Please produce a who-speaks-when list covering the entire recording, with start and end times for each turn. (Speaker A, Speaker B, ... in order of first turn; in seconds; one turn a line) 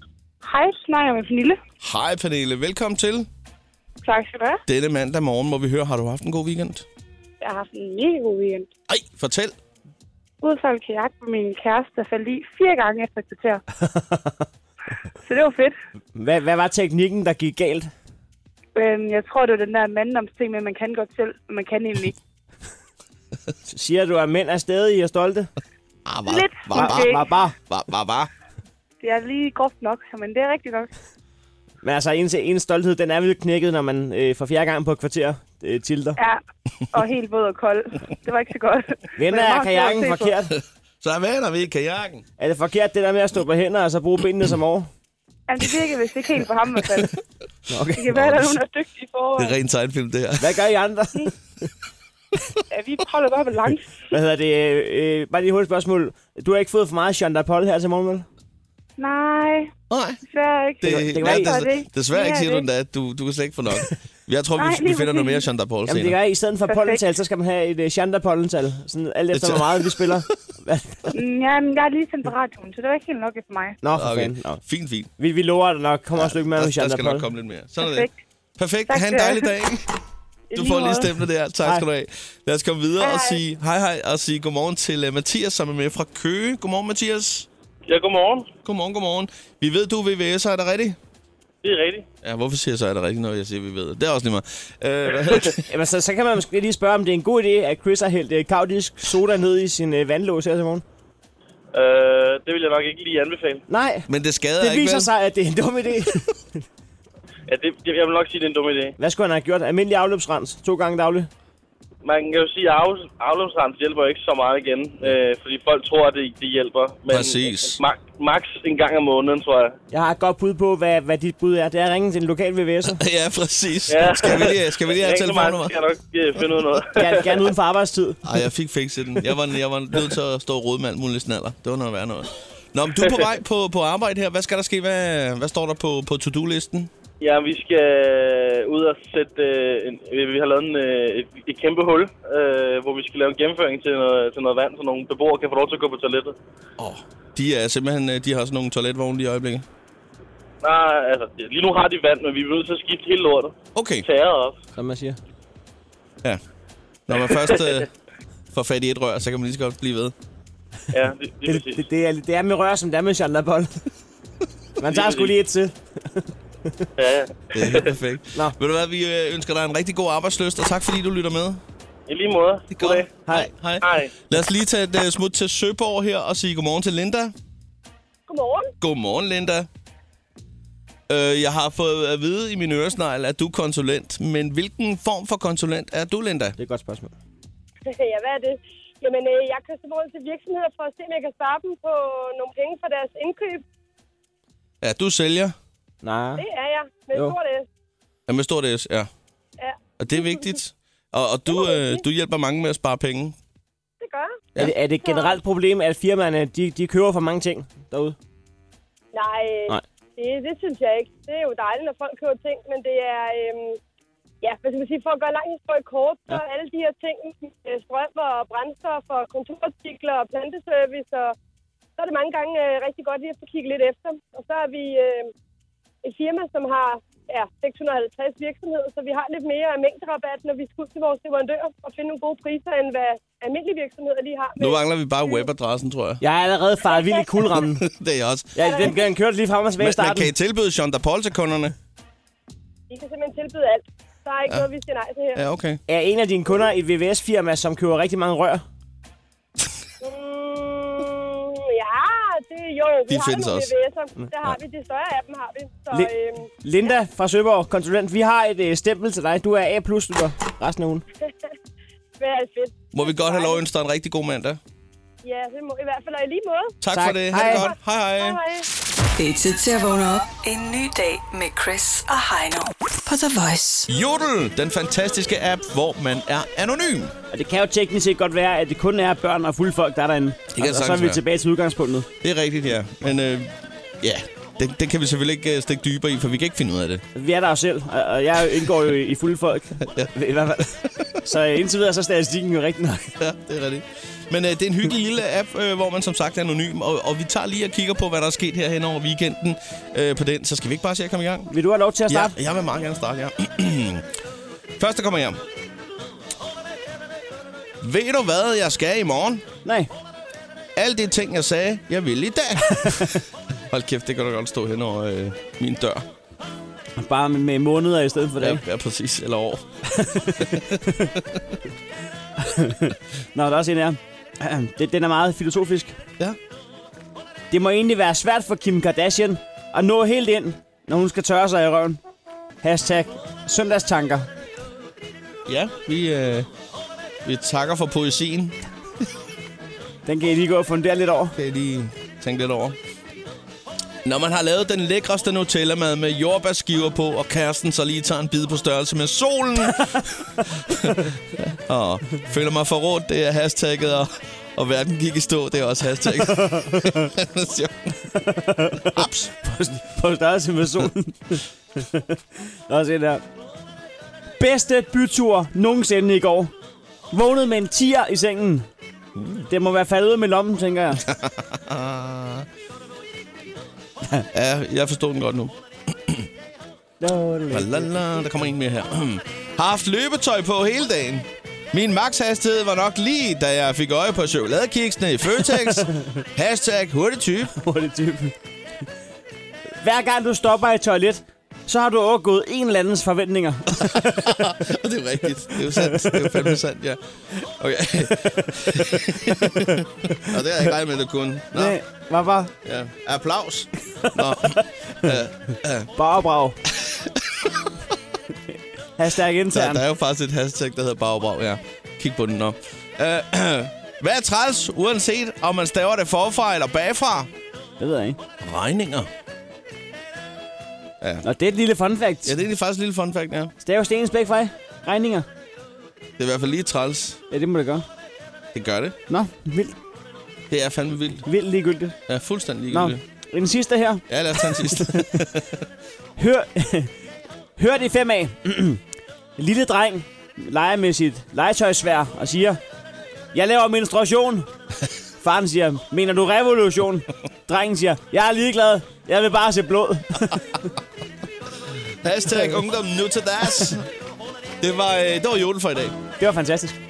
Speaker A: 0.4-1.6
Speaker B: 1.8-3.3
Speaker A: 4.0-4.6
Speaker B: 4.7-6.9
Speaker A: 7.4-8.7
Speaker B: 8.9-9.6
Speaker A: 10.4-13.6
Speaker C: 13.9-14.3
Speaker A: 15.2-15.8
Speaker C: 16.1-17.9
Speaker A: 18.8-22.2
Speaker C: 23.7-25.5
Speaker B: 26.1-28.3
Speaker A: 26.3-27.2
Speaker C: 26.7-27.5
Speaker A: 29.0-30.9
Speaker C: 31.8-36.2
Speaker A: 36.9-40.3
Speaker C: 39.2-40.5
Speaker B: 41.0-42.2
Speaker C: 42.4-44.9
Speaker A: 45.5-47.2
Speaker C: 47.7-48.1
Speaker A: 48.0-49.6
Speaker B: 48.1-48.6
Speaker B: 49.4-50.6
Speaker C: 50.4-51.3
Speaker A: 52.7-54.0
Speaker C: 54.1-58.3
Speaker A: 59.0-59.7
Speaker B: 59.9-60.2
Speaker A: 60.2-62.7
Speaker B: 60.8-66.2
Speaker C: 60.9-61.5
Speaker A: 64.6-65.5
Speaker C: 65.9-71.0
Speaker A: 66.7-67.0
Speaker B: 69.3-70.2
Speaker A: 71.1-73.8
Speaker C: 73.8-74.6
Speaker B: 73.9-75.1
Speaker C: 75.2-77.3
Speaker B: 76.2-79.9
Speaker A: 77.8-78.2
Speaker A: 78.9-79.5
Speaker A: 80.5-81.1
Speaker B: 80.5-87.5
Speaker A: 83.0-83.4
Speaker D: 87.9-88.5
Speaker B: 88.6-91.0
Speaker D: 91.6-92.1
Speaker B: 92.2-95.6
Speaker C: 95.7-100.8
Speaker D: 101.7-103.6
Speaker C: 103.7-104.1
Speaker B: 104.1-105.1
Speaker C: 104.6-106.3
Speaker D: 107.5-109.0
Speaker C: 109.0-111.3
Speaker D: 112.0-119.8
Speaker B: 117.1-117.8
Speaker C: 119.9-123.0
Speaker B: 123.0-125.8
Speaker D: 123.9-127.3
Speaker C: 126.9-128.2
Speaker B: 128.2-136.9
Speaker D: 137.2-146.3
Speaker B: 146.8-149.7
Speaker D: 150.6-154.6
Speaker B: 153.8-154.1
Speaker C: 154.8-155.2
Speaker B: 157.1-157.9
Speaker D: 157.2-157.8
Speaker B: 158.5-160.1
Speaker D: 160.9-161.8
Speaker C: 161.5-163.7
Speaker C: 164.8-166.8
Speaker D: 164.8-165.3
Speaker D: 167.0-167.9
Speaker B: 167.5-171.6
Speaker D: 172.1-173.1
Speaker B: 172.7-177.3
Speaker C: 173.3-173.5
Speaker D: 173.8-174.1
Speaker E: 178.3-178.7
Speaker B: 178.8-179.7
Speaker B: 181.1-186.6
Speaker C: 186.6-187.1
Speaker E: 187.8-193.6
Speaker B: 194.8-195.5
Speaker C: 196.0-196.4
Speaker E: 196.4-197.7
Speaker B: 198.3-199.1
Speaker E: 199.6-200.6
Speaker B: 200.0-203.3
Speaker E: 201.5-202.0
Speaker E: 204.0-204.4
Speaker C: 204.6-208.2
Speaker E: 205.0-205.4
Speaker E: 209.1-213.8
Speaker E: 214.4-221.3
Speaker E: 222.0-225.3
Speaker E: 226.0-235.5
Speaker B: 234.6-236.2
Speaker C: 236.2-237.8
Speaker E: 236.9-237.3
Speaker B: 237.5-239.0
Speaker C: 238.5-240.3
Speaker E: 238.6-239.1
Speaker B: 239.8-241.8
Speaker E: 242.9-245.4
Speaker B: 245.3-245.8
Speaker C: 245.9-248.7
Speaker E: 250.0-256.5
Speaker B: 253.1-253.7
Speaker C: 256.6-261.0
Speaker E: 262.2-263.6
Speaker B: 262.9-264.6
Speaker E: 265.2-266.8
Speaker B: 266.8-268.4
Speaker C: 266.9-267.7
Speaker E: 267.3-268.6
Speaker F: 269.1-273.9
Speaker B: 273.9-277.1
Speaker C: 277.3-282.1
Speaker B: 280.5-281.2
Speaker B: 282.2-287.0
Speaker C: 287.1-293.1
Speaker B: 293.2-301.5
Speaker C: 301.5-302.4
Speaker B: 302.1-304.1
Speaker B: 304.8-305.4
Speaker B: 307.8-309.5
Speaker C: 309.6-309.9
Speaker B: 310.8-316.0
Speaker C: 317.0-318.6
Speaker B: 318.4-319.6
Speaker C: 319.9-321.1
Speaker B: 320.4-321.4
Speaker C: 322.4-326.0
Speaker C: 327.5-332.0
Speaker C: 332.6-334.3
Speaker B: 335.5-336.5
Speaker B: 337.2-338.6
Speaker C: 340.1-341.4
Speaker B: 341.4-342.8
Speaker B: 344.0-358.0
Speaker C: 356.3-357.1
Speaker C: 358.2-363.2
Speaker C: 364.4-366.5
Speaker C: 367.1-368.7
Speaker C: 369.5-371.0
Speaker B: 371.1-372.5
Speaker B: 374.3-376.3
Speaker C: 377.0-378.1
Speaker B: 377.5-387.5
Speaker C: 385.7-386.2
Speaker C: 387.6-388.4
Speaker C: 389.8-394.4
Speaker B: 393.8-401.8
Speaker C: 395.8-396.5
Speaker C: 399.5-400.3
Speaker C: 401.6-402.5
Speaker B: 402.6-405.9
Speaker C: 404.1-404.6
Speaker C: 406.0-406.6
Speaker B: 406.7-407.7
Speaker C: 409.0-409.8
Speaker B: 409.5-417.3
Speaker C: 417.8-418.2
Speaker B: 418.4-419.1
Speaker C: 421.2-422.4
Speaker B: 422.2-423.5
Speaker C: 423.6-425.3
Speaker B: 426.2-427.2
Speaker C: 427.3-427.9
Speaker B: 428.5-429.0
Speaker C: 429.1-429.8
Speaker B: 430.5-431.2
Speaker C: 431.2-432.0
Speaker B: 432.1-433.0
Speaker C: 432.7-435.1
Speaker B: 434.1-435.6
Speaker C: 436.2-436.9
Speaker C: 437.6-438.8
Speaker C: 439.4-442.6
Speaker C: 443.3-444.5
Speaker C: 445.2-450.6
Speaker B: 452.0-453.9
Speaker B: 454.6-456.0
Speaker C: 456.2-456.8